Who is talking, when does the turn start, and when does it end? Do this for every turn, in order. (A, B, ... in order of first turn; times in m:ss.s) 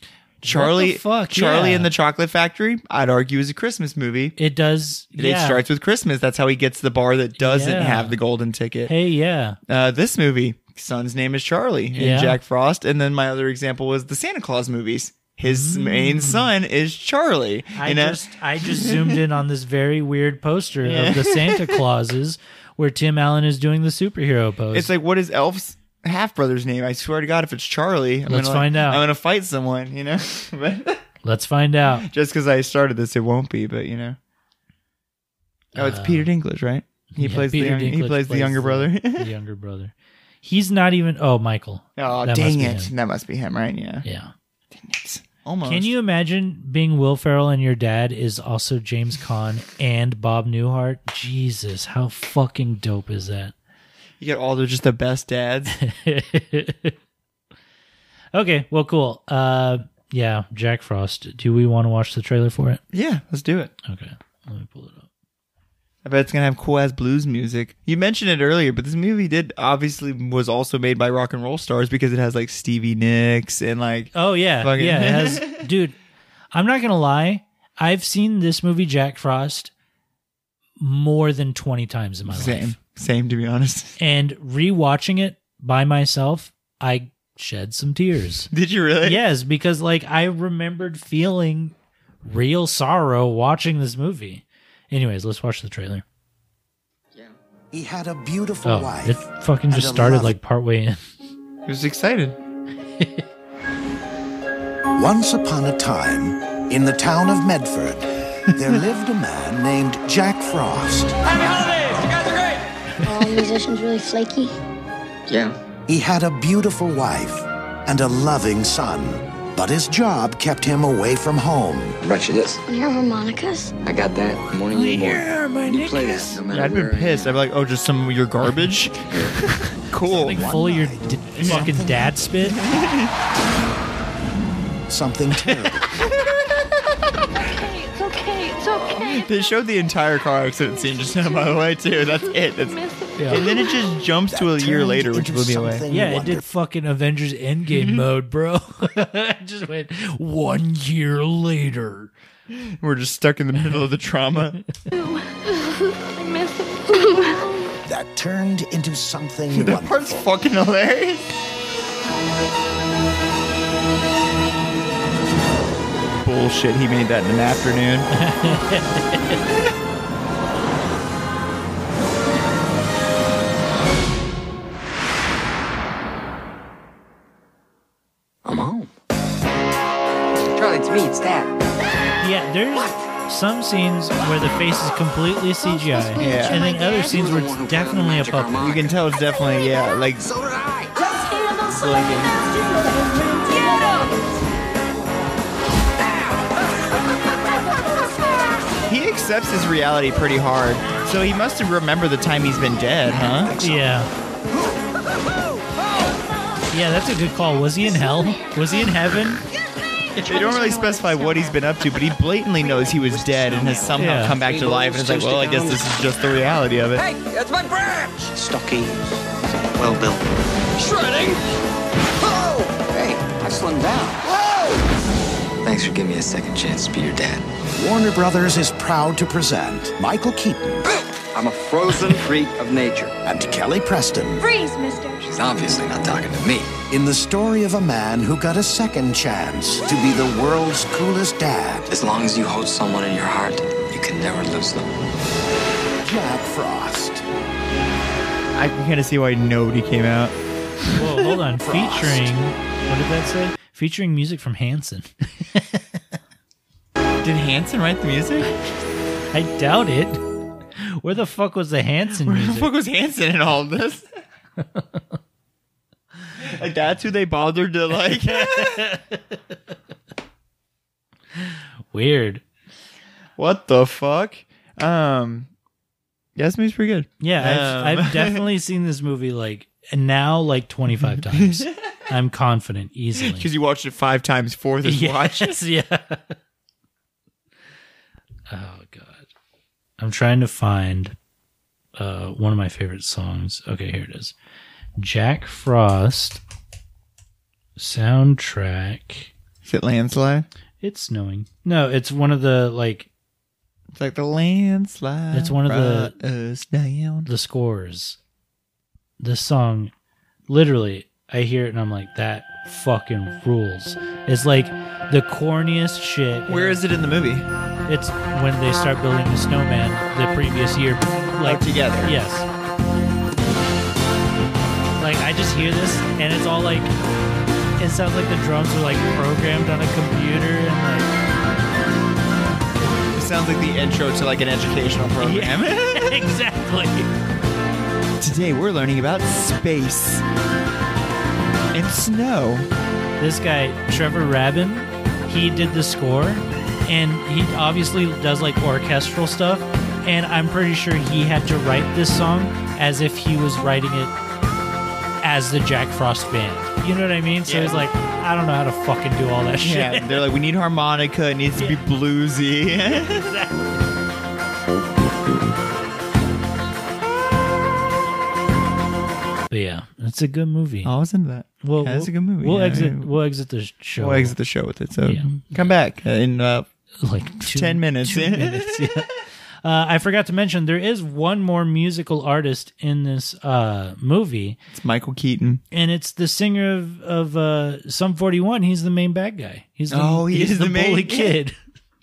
0:00.4-0:01.9 A
0:00.4-0:04.3 B
0:04.4-0:05.6 A
0:05.2-0:08.9 B
0:07.4-0:08.2 A
0:08.9-0:09.6 A
0:09.7-0:19.2 B
0:11.9-0:12.4 A
0:15.4-0:16.5 A
0:17.7-0:24.9 A
0:20.8-0:21.8 B
0:24.7-0:31.0 B
0:28.3-0:29.0 A
0:31.2-0:32.0 A
0:31.9-0:34.2 B
0:35.7-0:36.3 A
0:35.7-0:39.3 B
0:37.2-0:42.9 A
0:42.0-0:44.0 B
0:44.0-0:44.3 A
0:44.7-0:45.9 B
0:45.6-0:53.5 A
0:54.2-0:55.8 B
0:55.7-0:56.9 A
0:58.3-1:02.8 A
1:02.9-1:03.7 B
1:03.8-1:05.0 A
1:06.0-1:15.7 B
1:14.1-1:16.0 A
1:16.5-1:19.7 A
1:20.8-1:22.7 A
1:22.2-1:24.0 B
1:24.0-1:28.5 A
1:28.5-1:29.2 B
1:29.0-1:36.0 A
1:37.7-1:40.4 C
1:38.6-1:41.0 A
1:41.6-1:42.4 B
1:43.0-1:43.2 A
1:44.9-1:51.1 C
1:51.2-1:52.6 D
1:53.0-1:54.5 E
1:55.3-1:55.5 D
1:55.9-2:02.0 C
2:02.0-2:02.6 D
2:02.6-2:03.7 E
2:03.8-2:07.3 D
2:04.7-2:06.4 A
2:04.8-2:10.5 B
2:10.0-2:12.7 C
2:10.1-2:12.6 A
2:11.4-2:11.7 B
2:12.5-2:13.1 B
2:14.9-2:15.8 C
2:15.4-2:15.7 A
2:17.3-2:19.5 F
2:19.0-2:22.7 B
2:20.6-2:23.9 F
2:23.2-2:23.4 A
2:23.3-2:25.8 B
2:24.3-2:26.4 C
2:25.9-2:32.1 A
2:27.7-2:28.0 B
2:32.5-2:34.6 B
2:34.9-2:37.8 F
2:37.8-2:40.2 C
2:39.5-2:41.2 B
2:46.2-2:48.1 B
2:48.1-2:49.4 A
2:58.4-2:58.9 D
3:00.5-3:01.5 D
3:02.2-3:08.7 A
3:05.6-3:07.1 F
3:06.2-3:06.7 B
3:07.1-3:08.9 D
3:08.6-3:10.3 B
3:10.2-3:11.0 D
3:11.8-3:12.3 B
3:18.9-3:23.5 B
3:23.6-3:24.1 A
3:26.7-3:29.4 A
3:30.2-3:31.5 F
3:30.2-3:37.0 B
3:32.8-3:35.8 D
3:34.0-3:34.4 A
3:36.9-3:39.2 D
3:39.7-3:40.2 D
3:40.8-3:41.4 D
3:42.2-3:44.8 D
3:45.6-3:47.4 D
3:47.7-3:50.8 C
3:50.9-3:53.1 D
3:53.2-3:54.4 C
3:54.3-3:55.3 F
3:55.2-3:56.7 D
3:56.9-4:01.9 C
4:01.9-4:04.9 D
4:06.0-4:07.2 C
4:08.5-4:10.3 B
4:10.9-4:11.3 B
4:10.9-4:16.0 A
4:11.7-4:12.2 C
4:17.2-4:18.5 B
4:19.3-4:20.2 A
4:20.8-4:22.7 A
4:22.2-4:24.0 B
4:24.6-4:25.0 A
4:26.4-4:28.9 B
4:28.0-4:29.2 A
4:31.4-4:32.4 A
4:33.4-4:35.5 B
4:36.4-4:38.4 B
4:37.2-4:43.5 A
4:41.2-4:41.7 B
4:43.2-4:45.6 B
4:44.8-4:46.4 A
4:48.5-4:49.3 A
4:50.0-4:51.1 A
4:52.0-4:54.3 A
4:55.0-4:56.4 A
4:57.8-4:59.3 A
4:59.6-5:00.5 B
5:00.8-5:03.1 A
5:03.9-5:07.3 B
5:05.3-5:06.1 A
5:07.2-5:08.2 A
5:09.2-5:09.9 A
5:10.5-5:16.8 A
5:16.5-5:17.4 B
5:17.9-5:22.4 A
5:21.4-5:22.2 B
5:25.0-5:26.9 A
5:27.8-5:31.1 A
5:33.1-5:36.1 B
5:35.2-5:37.1 A
5:38.2-5:40.2 B
5:41.7-5:42.7 B
5:43.2-5:54.1 A
5:55.2-6:00.2 A
5:57.4-5:57.8 B
5:59.6-6:03.3 B
6:02.9-6:03.7 A
6:09.5-6:10.9 A
6:10.8-6:13.1 B
6:11.6-6:14.4 A
6:14.0-6:16.7 B
6:17.0-6:19.1 A
6:17.4-6:19.1 B
6:19.6-6:24.6 A
6:24.7-6:25.6 B
6:25.7-6:31.6 A
6:29.9-6:31.4 B